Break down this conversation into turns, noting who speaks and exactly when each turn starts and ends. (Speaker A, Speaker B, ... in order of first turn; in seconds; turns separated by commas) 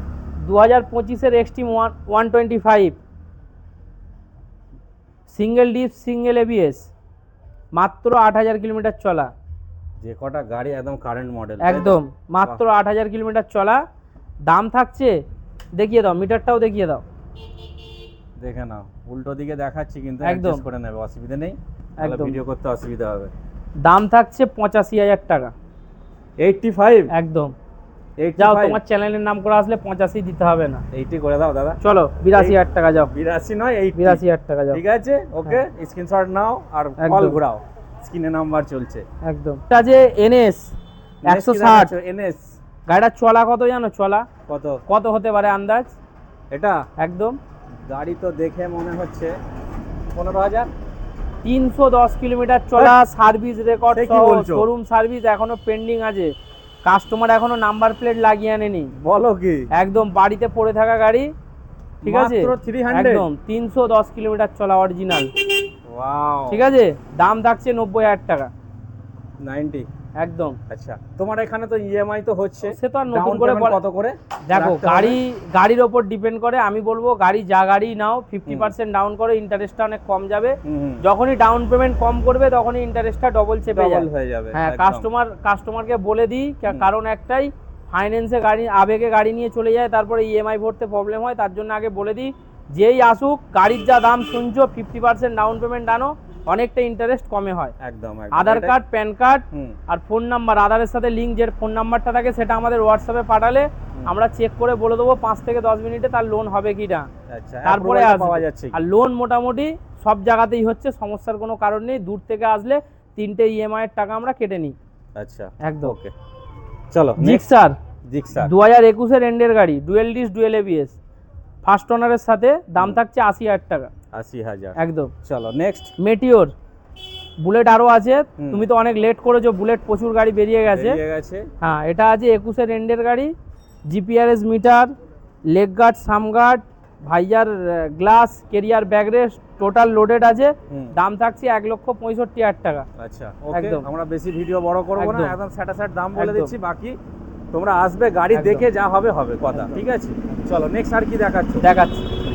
Speaker A: 0.4-3.0, Speaker A: 5.3-6.9, Speaker A: 7.8-9.3, Speaker B: 10.0-12.6, Speaker A: 11.6-13.8, Speaker A: 14.5-15.2, Speaker A: 15.8-17.0, Speaker B: 18.4-23.3, Speaker A: 20.2-20.6, Speaker A: 22.0-22.4, Speaker A: 23.8-25.5, Speaker B: 26.4-27.1, Speaker A: 27.1-27.5, Speaker B: 28.2-28.8, Speaker A: 28.4-30.8, Speaker B: 30.9-31.8, Speaker A: 31.8-33.1, Speaker B: 32.3-39.0, Speaker A: 34.0-34.8, Speaker A: 37.0-37.4, Speaker A: 39.2-40.7, Speaker B: 41.2-42.4, Speaker A: 41.2-41.9, Speaker A: 42.9-44.3, Speaker B: 44.5-44.8, Speaker A: 44.9-45.9, Speaker B: 46.5-46.8, Speaker A: 47.0-47.4, Speaker B: 47.8-49.3, Speaker B: 50.1-50.7, Speaker A: 51.4-56.3, Speaker B: 53.9-54.7, Speaker A: 56.8-58.9, Speaker B: 59.0-59.6, Speaker A: 59.7-61.3, Speaker B: 62.0-63.3, Speaker A: 62.0-65.3, Speaker B: 65.9-66.7, Speaker A: 66.5-68.5, Speaker B: 69.4-69.9, Speaker A: 70.2-70.6, Speaker B: 70.7-75.2, Speaker A: 72.7-73.8, Speaker A: 74.5-97.7, Speaker B: 78.5-78.7, Speaker B: 80.6-81.0, Speaker B: 83.7-85.1, Speaker B: 97.8-98.8, Speaker A: 98.3-107.1, Speaker B: 99.5-99.8, Speaker B: 107.3-108.8, Speaker A: 107.7-114.7, Speaker B: 115.2-116.1, Speaker A: 115.6-115.9, Speaker B: 116.9-117.5, Speaker A: 117.2-117.8, Speaker B: 118.1-118.5, Speaker A: 118.4-121.0, Speaker A: 121.6-123.9, Speaker B: 124.1-125.9, Speaker A: 124.8-125.1, Speaker A: 126.0-126.5, Speaker A: 127.4-131.0, Speaker B: 128.4-128.7, Speaker B: 130.7-131.4, Speaker A: 131.6-133.3, Speaker A: 133.9-134.9, Speaker A: 135.5-142.9, Speaker B: 140.7-140.9, Speaker B: 143.0-147.0, Speaker A: 143.5-143.8, Speaker A: 144.9-145.3, Speaker A: 146.2-146.5, Speaker B: 147.5-151.6, Speaker A: 148.3-148.7, Speaker A: 149.5-149.8, Speaker A: 151.6-152.1